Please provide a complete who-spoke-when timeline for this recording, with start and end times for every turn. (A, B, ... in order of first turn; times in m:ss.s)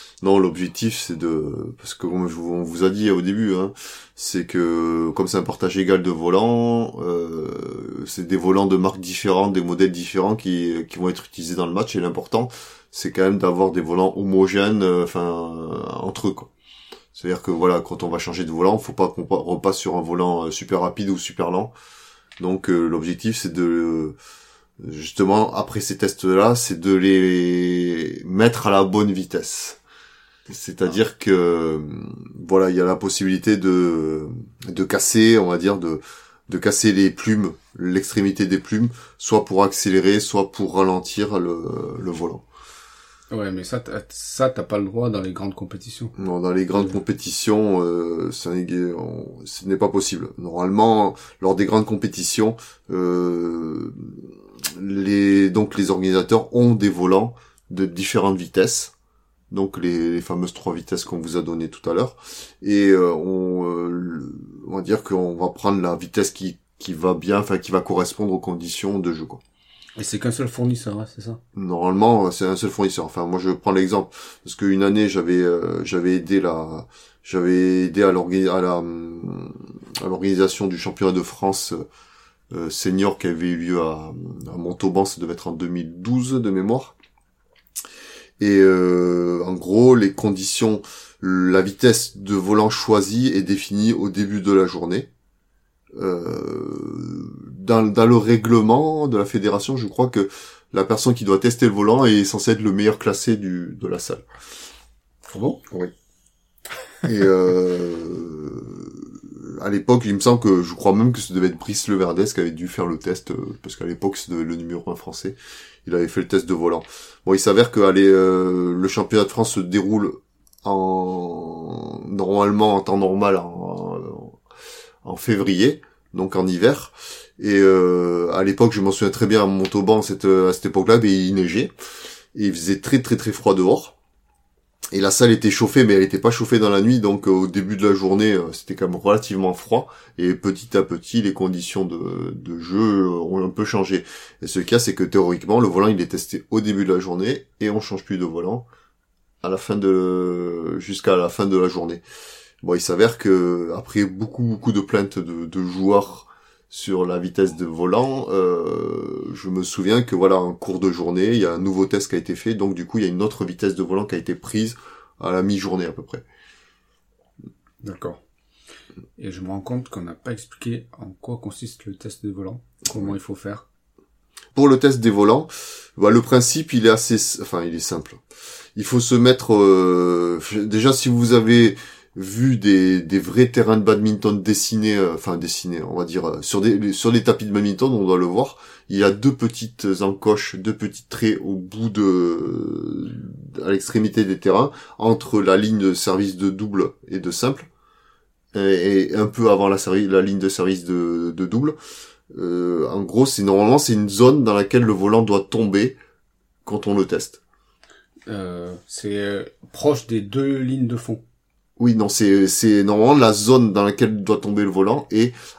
0:00.2-0:16.5 A
0:17.1-0:21.7 A
0:22.4-0:24.2 A
0:24.8-0:29.8 A
0:30.5-0:42.4 A
0:43.3-0:46.2 B
0:46.2-0:58.9 A
0:59.5-1:09.4 A
1:10.0-1:11.4 B
1:11.5-1:21.8 A
1:22.5-1:26.9 A
1:28.4-1:35.1 A
1:35.9-1:44.2 A
1:45.2-1:45.6 B
1:47.0-2:04.4 A
2:05.0-2:11.7 A
2:12.3-2:13.9 A
2:14.9-2:28.6 A
2:29.4-2:32.0 A
2:32.6-2:46.2 A
2:47.8-2:48.2 B
2:49.2-2:53.6 B
2:54.5-2:58.2 A
2:58.8-3:17.7 A
3:18.5-3:21.8 A
3:22.3-3:26.0 A
3:26.6-3:27.4 A
3:28.3-3:31.2 B
3:31.8-3:35.3 A